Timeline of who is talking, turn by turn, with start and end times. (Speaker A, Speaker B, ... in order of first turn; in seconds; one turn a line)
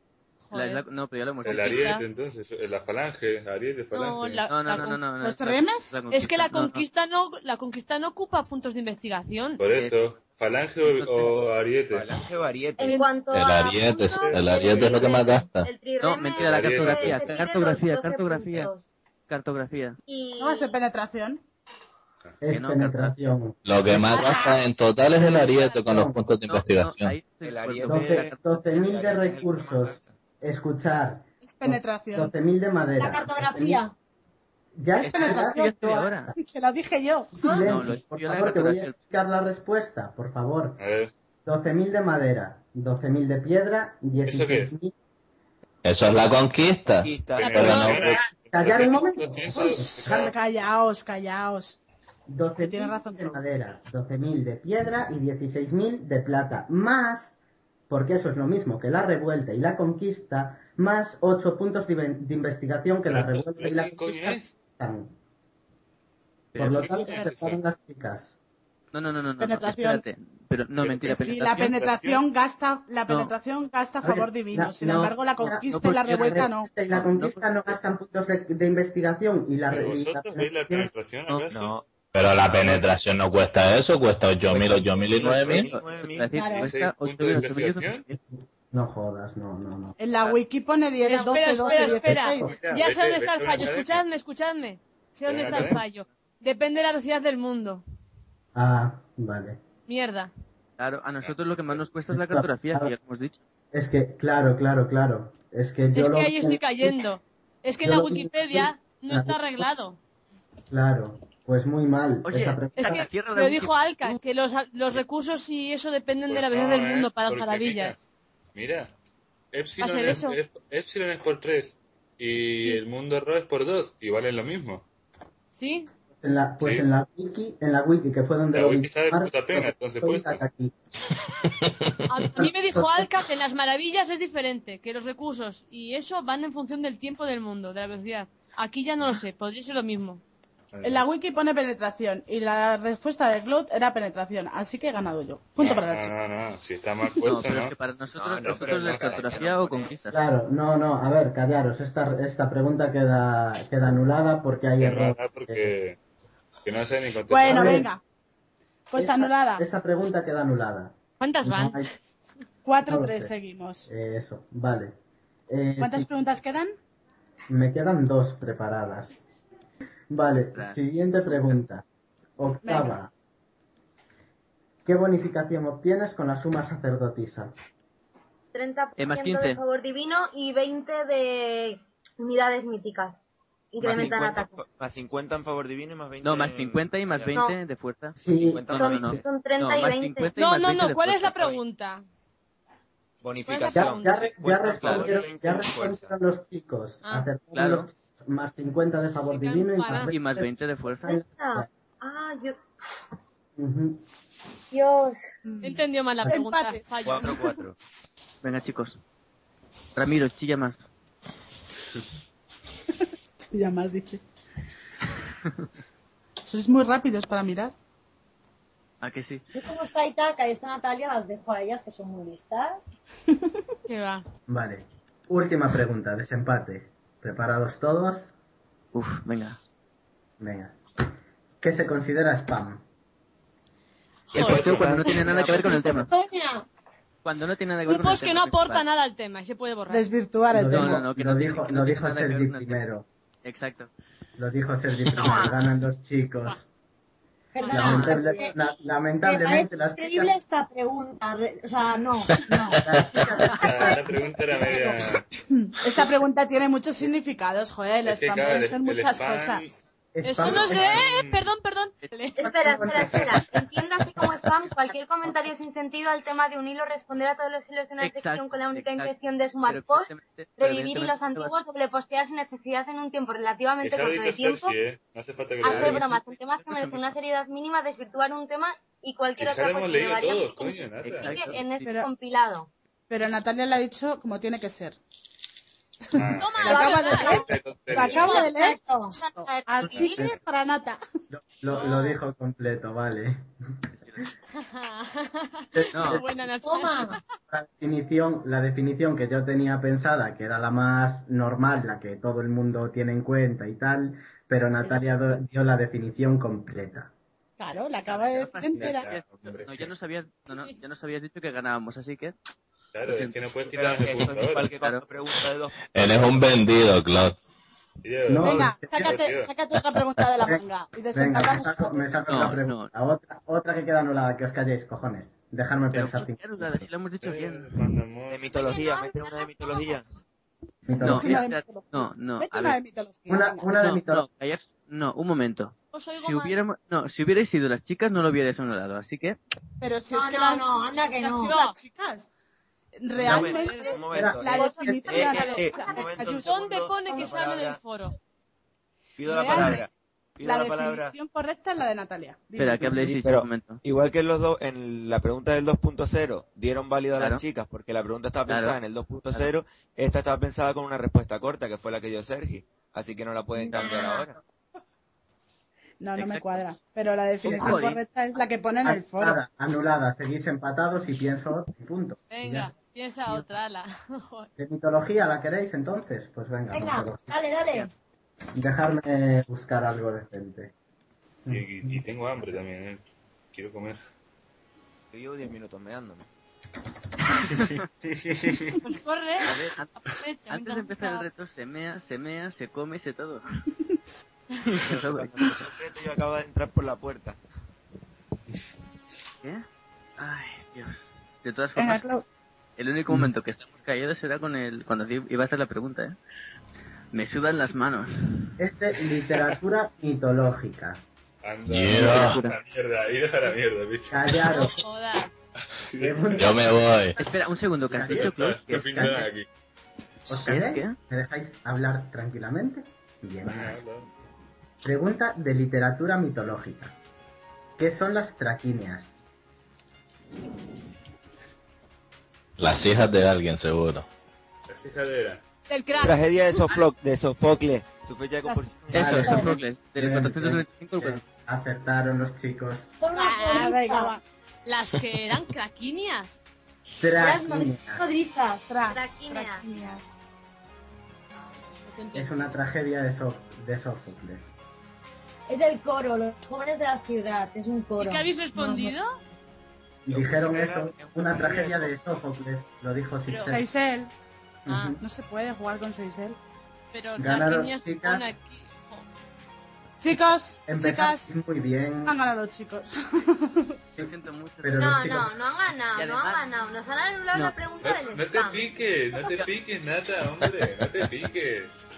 Speaker A: 0.5-0.8
Speaker B: 0.5-1.8
Speaker A: 1.4-2.0
Speaker C: 1.5-4.4
Speaker A: 3.9-5.0
Speaker B: 4.5-6.8
Speaker D: 5.2-6.0
Speaker A: 6.1-9.6
Speaker C: 9.6-12.1
Speaker B: 9.7-10.0
Speaker B: 10.8-11.4
Speaker E: 11.9-13.1
Speaker F: 12.8-18.9
Speaker G: 13.3-15.7
Speaker C: 14.2-15.0
Speaker B: 16.0-18.7
Speaker C: 16.5-17.0
Speaker B: 19.3-20.0
Speaker F: 20.1-20.7
Speaker D: 20.4-21.4
Speaker H: 22.4-24.2
Speaker B: 22.5-23.1
Speaker G: 23.6-27.2
Speaker I: 24.1-24.5
Speaker A: 24.3-24.6
Speaker H: 25.1-26.2
Speaker A: 25.5-25.9
Speaker B: 26.4-28.5
Speaker E: 27.4-30.2
Speaker H: 27.9-33.8
Speaker D: 31.4-32.3
Speaker I: 33.0-33.9
Speaker H: 34.8-36.4
Speaker B: 35.0-36.3
Speaker D: 35.1-37.5
Speaker I: 37.4-37.8
Speaker H: 37.4-40.8
Speaker B: 37.6-39.0
Speaker C: 40.8-41.1
Speaker H: 41.4-44.9
Speaker C: 44.2-44.7
Speaker G: 45.8-48.3
Speaker E: 47.0-47.8
Speaker A: 47.4-48.0
Speaker C: 47.5-50.4
Speaker H: 48.5-50.3
Speaker D: 49.5-51.8
Speaker H: 52.3-57.4
Speaker D: 52.6-53.4
Speaker H: 57.9-65.1
Speaker C: 63.1-64.5
Speaker B: 66.5-67.0
Speaker H: 66.6-68.3
Speaker C: 66.8-67.6
Speaker B: 68.9-71.8
Speaker D: 69.4-70.0
Speaker C: 70.8-72.2
Speaker D: 71.1-76.7
Speaker B: 73.1-73.3
Speaker H: 74.0-80.9
Speaker B: 75.4-77.8
Speaker C: 79.7-81.7
Speaker E: 81.5-81.9
Speaker G: 82.1-85.7
Speaker C: 82.6-82.9
Speaker E: 84.5-86.4
Speaker B: 85.5-88.2
Speaker I: 86.3-86.7
Speaker C: 86.6-88.0
Speaker H: 88.3-89.9
Speaker D: 90.0-92.6
Speaker A: 91.0-97.8
Speaker H: 91.9-92.5
Speaker C: 92.5-94.0
Speaker C: 95.3-95.7
Speaker H: 95.5-95.8
Speaker H: 98.5-99.6
Speaker A: 99.9-100.3
Speaker B: 100.8-103.4
Speaker C: 101.2-101.8
Speaker H: 102.1-102.9
Speaker H: 103.7-107.0
Speaker A: 105.9-110.0
Speaker H: 107.8-109.7
Speaker H: 110.7-113.1
Speaker B: 112.2-114.2
Speaker A: 112.8-117.9
Speaker C: 116.3-118.0
Speaker C: 118.5-118.9
Speaker C: 119.5-124.8
Speaker A: 119.8-120.4
Speaker A: 125.5-125.9
Speaker H: 126.2-130.7
Speaker C: 126.6-126.9
Speaker C: 128.5-130.4
Speaker G: 131.6-132.3
Speaker A: 132.1-140.2
Speaker H: 132.4-133.0
Speaker C: 140.7-141.0
Speaker D: 140.8-146.2
Speaker C: 145.9-147.7
Speaker B: 147.2-150.2
Speaker E: 148.1-150.1
Speaker C: 148.4-149.3
Speaker H: 150.1-155.7
Speaker C: 154.8-156.0
Speaker C: 156.6-157.6
Speaker D: 157.3-158.0
Speaker H: 157.5-157.9
Speaker D: 158.9-159.6
Speaker H: 158.9-161.9
Speaker A: 161.2-161.9
Speaker D: 162.6-163.9
Speaker H: 162.9-163.3
Speaker H: 163.9-164.9
Speaker H: 165.5-166.1
Speaker D: 165.8-166.8
Speaker H: 167.5-169.2
Speaker H: 170.1-171.8
Speaker B: 170.5-171.6
Speaker H: 172.4-173.1
Speaker D: 172.6-172.9
Speaker H: 174.8-177.5
Speaker F: 178.5-183.2
Speaker B: 179.0-179.6
Speaker F: 183.7-184.6
Speaker E: 183.8-187.4
Speaker B: 186.2-191.6
Speaker H: 188.2-189.2
Speaker E: 188.3-189.2
Speaker F: 188.7-190.3
Speaker A: 190.4-192.0
Speaker E: 193.2-196.2
Speaker A: 193.4-193.9
Speaker H: 193.7-201.7
Speaker B: 197.5-197.9
Speaker A: 199.3-200.1
Speaker B: 200.1-201.2
Speaker F: 201.0-202.6
Speaker H: 203.6-204.0
Speaker F: 204.7-205.2
Speaker D: 205.4-207.6
Speaker A: 205.6-207.4
Speaker E: 207.0-207.8
Speaker B: 208.4-209.0
Speaker B: 209.9-210.8
Speaker D: 213.4-214.2
Speaker D: 216.4-217.7
Speaker B: 219.0-219.4
Speaker I: 219.5-223.0
Speaker A: 223.9-224.2
Speaker H: 224.5-228.3
Speaker B: 228.9-229.6
Speaker H: 230.4-230.8
Speaker H: 231.6-232.8
Speaker A: 234.3-235.2
Speaker E: 234.3-236.1
Speaker B: 234.4-236.1
Speaker I: 235.5-236.6
Speaker B: 237.2-238.9
Speaker A: 237.9-240.0
Speaker D: 239.9-241.0
Speaker H: 240.5-243.1
Speaker B: 240.7-242.8
Speaker B: 243.4-243.9
Speaker H: 244.4-246.7
Speaker I: 247.5-248.5
Speaker H: 247.7-250.4
Speaker B: 247.7-248.3
Speaker I: 249.2-252.8
Speaker H: 252.8-254.0
Speaker I: 253.5-253.9
Speaker C: 253.6-255.2
Speaker D: 255.5-259.8
Speaker C: 258.1-259.8
Speaker H: 260.1-261.1
Speaker A: 260.2-262.4
Speaker C: 260.5-261.4
Speaker B: 262.0-262.3
Speaker F: 262.4-274.8
Speaker H: 262.4-263.3
Speaker B: 264.1-264.4
Speaker B: 268.0-271.5
Speaker C: 273.8-275.8
Speaker F: 275.6-282.7
Speaker B: 275.6-277.1
Speaker C: 279.4-281.3
Speaker B: 281.0-281.9
Speaker D: 283.1-285.0
Speaker D: 286.1-291.0
Speaker C: 286.2-286.6
Speaker A: 286.4-287.4
Speaker F: 286.6-288.5
Speaker I: 286.7-287.1
Speaker C: 287.5-288.0
Speaker I: 288.0-289.1
Speaker F: 289.1-290.3
Speaker H: 289.8-290.3
Speaker H: 291.3-293.5
Speaker A: 291.7-292.2
Speaker B: 293.9-294.3
Speaker A: 294.7-297.2
Speaker H: 295.8-296.3
Speaker B: 295.9-296.2
Speaker I: 296.6-297.2
Speaker H: 297.5-307.1
Speaker D: 307.6-309.1
Speaker B: 308.1-312.4
Speaker C: 308.8-309.9
Speaker C: 312.9-314.7
Speaker B: 313.0-313.4
Speaker E: 313.6-316.6
Speaker G: 315.9-317.4
Speaker C: 318.0-319.5
Speaker H: 318.3-319.2
Speaker D: 318.3-322.1
Speaker H: 320.4-320.6
Speaker H: 321.1-326.9
Speaker B: 322.3-322.9
Speaker B: 325.9-328.0
Speaker C: 327.2-328.4
Speaker E: 328.3-330.1
Speaker F: 328.6-330.0
Speaker H: 330.9-331.4
Speaker D: 331.0-333.7
Speaker B: 331.0-332.8
Speaker H: 333.3-334.2
Speaker B: 333.8-339.4
Speaker A: 335.9-336.6
Speaker D: 339.8-342.3
Speaker I: 340.1-341.5
Speaker A: 341.5-341.7
Speaker D: 342.9-346.5
Speaker H: 343.2-343.6
Speaker E: 343.2-347.8
Speaker A: 343.3-344.0
Speaker H: 344.1-344.4
Speaker A: 344.6-345.7
Speaker F: 345.2-345.7
Speaker A: 346.4-348.1
Speaker I: 347.1-347.4
Speaker E: 349.2-351.1
Speaker D: 349.2-349.9
Speaker D: 350.4-353.1
Speaker B: 352.6-353.8
Speaker E: 352.8-364.4
Speaker B: 357.1-357.4
Speaker B: 358.5-358.8
Speaker I: 363.6-364.3
Speaker D: 366.0-369.4
Speaker B: 366.1-366.7
Speaker H: 367.4-367.8
Speaker B: 367.5-368.0
Speaker H: 368.8-372.8
Speaker A: 372.3-374.5
Speaker H: 374.6-377.4
Speaker I: 376.7-377.9
Speaker H: 378.6-380.7
Speaker H: 381.4-382.4
Speaker C: 381.5-384.0
Speaker E: 385.1-386.2
Speaker B: 387.4-387.6
Speaker C: 388.1-388.4
Speaker A: 388.8-389.5
Speaker B: 389.4-389.9
Speaker A: 390.0-391.3
Speaker B: 390.5-393.4
Speaker D: 393.9-394.2
Speaker B: 394.8-395.5
Speaker E: 394.8-397.4
Speaker B: 400.2-402.1
Speaker D: 401.8-402.2
Speaker B: 402.8-406.2
Speaker B: 407.1-408.5
Speaker H: 408.6-411.0
Speaker C: 411.4-414.4
Speaker G: 411.6-412.4
Speaker B: 411.9-412.6
Speaker H: 414.1-414.8
Speaker A: 414.4-415.4
Speaker C: 415.8-416.4
Speaker H: 416.0-419.3
Speaker G: 416.4-417.1
Speaker B: 417.2-419.3
Speaker C: 418.0-419.5
Speaker H: 420.3-423.8
Speaker B: 420.3-420.9
Speaker C: 423.5-424.1
Speaker H: 424.8-426.9
Speaker H: 427.8-429.2
Speaker G: 432.6-434.1
Speaker C: 434.7-435.4
Speaker A: 435.7-436.2
Speaker E: 436.0-439.6
Speaker B: 438.9-441.2
Speaker H: 438.9-442.9
Speaker I: 439.2-439.5
Speaker I: 443.0-444.1
Speaker A: 443.2-443.7
Speaker D: 443.6-444.2
Speaker A: 444.6-446.4
Speaker H: 447.0-448.0
Speaker I: 447.2-448.8
Speaker D: 448.7-450.2
Speaker F: 448.8-449.6
Speaker A: 451.9-452.6
Speaker H: 452.1-454.5
Speaker I: 455.5-458.4
Speaker A: 458.0-459.1
Speaker D: 458.4-458.9
Speaker H: 460.1-463.6
Speaker E: 460.1-462.0
Speaker A: 463.3-463.6
Speaker D: 463.4-464.1
Speaker H: 464.6-465.0
Speaker A: 464.7-464.9
Speaker D: 465.0-466.4
Speaker A: 466.9-469.1
Speaker H: 467.2-468.3
Speaker D: 470.0-471.4
Speaker H: 470.6-472.1
Speaker D: 472.1-473.8
Speaker B: 474.0-475.1
Speaker H: 474.0-475.3
Speaker F: 474.8-478.7
Speaker B: 475.9-476.4
Speaker B: 477.3-477.6
Speaker C: 477.8-481.7
Speaker B: 479.2-479.5